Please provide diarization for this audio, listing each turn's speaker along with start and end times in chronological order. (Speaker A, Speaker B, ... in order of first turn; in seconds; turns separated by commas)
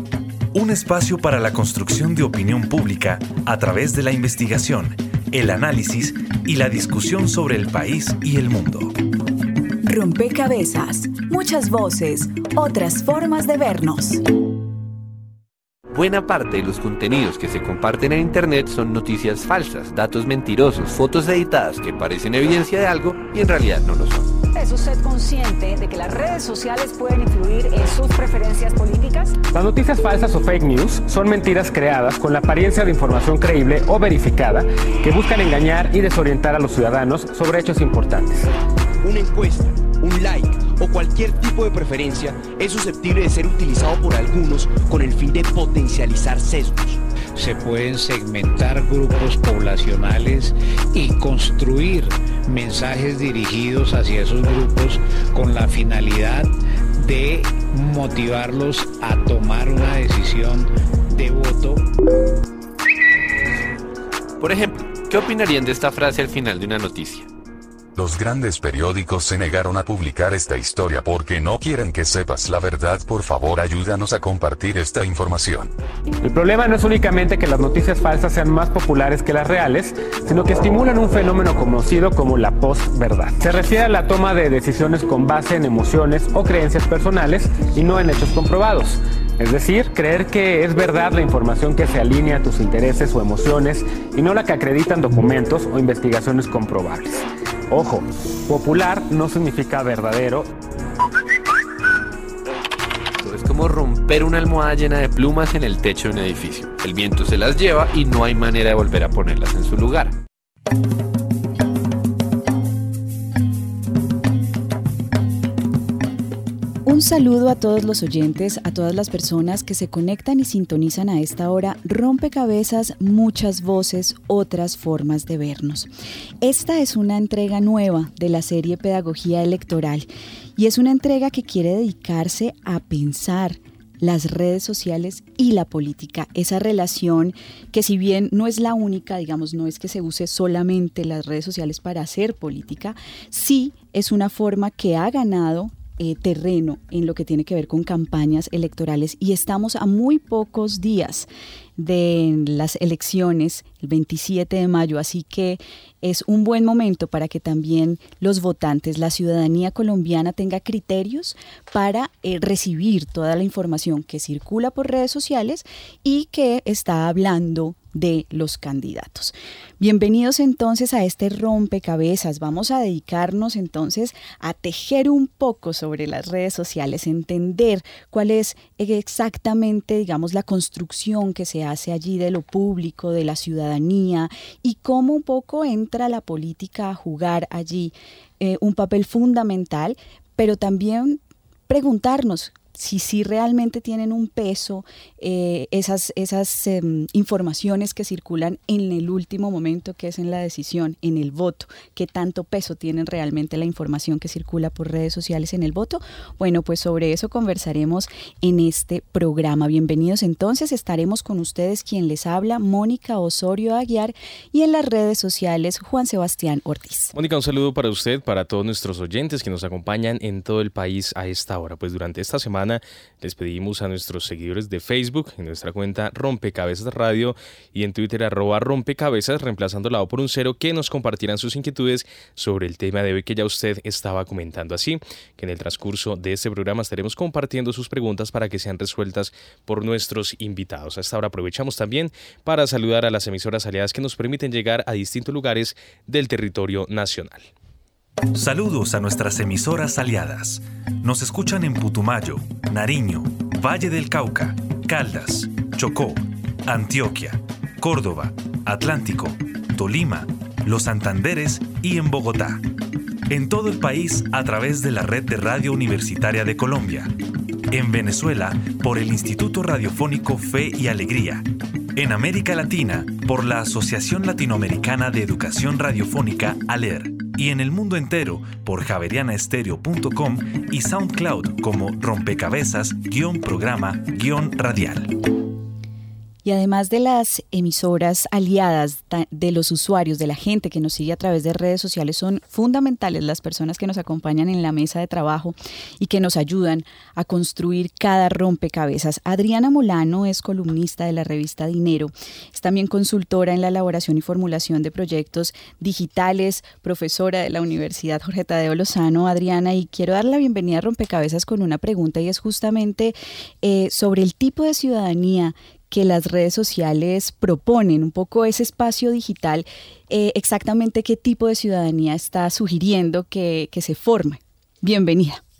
Speaker A: 0.5-8.9, Speaker B: 9.8-14.2, Speaker C: 15.9-24.3, Speaker D: 24.5-29.4, Speaker E: 29.5-38.4, Speaker F: 39.0-47.0, Speaker G: 47.4-61.9, Speaker C: 64.4-67.3, Speaker H: 67.9-75.7, Speaker E: 76.2-100.5, Speaker C: 103.2-110.2, Speaker B: 116.8-125.9, Speaker B: 126.4-217.1, Speaker I: 217.1-247.5, Speaker A: 248.3-262.6, Speaker A: 263.3-267.1, Speaker A: 267.7-285.1, Speaker B: 286.4-325.4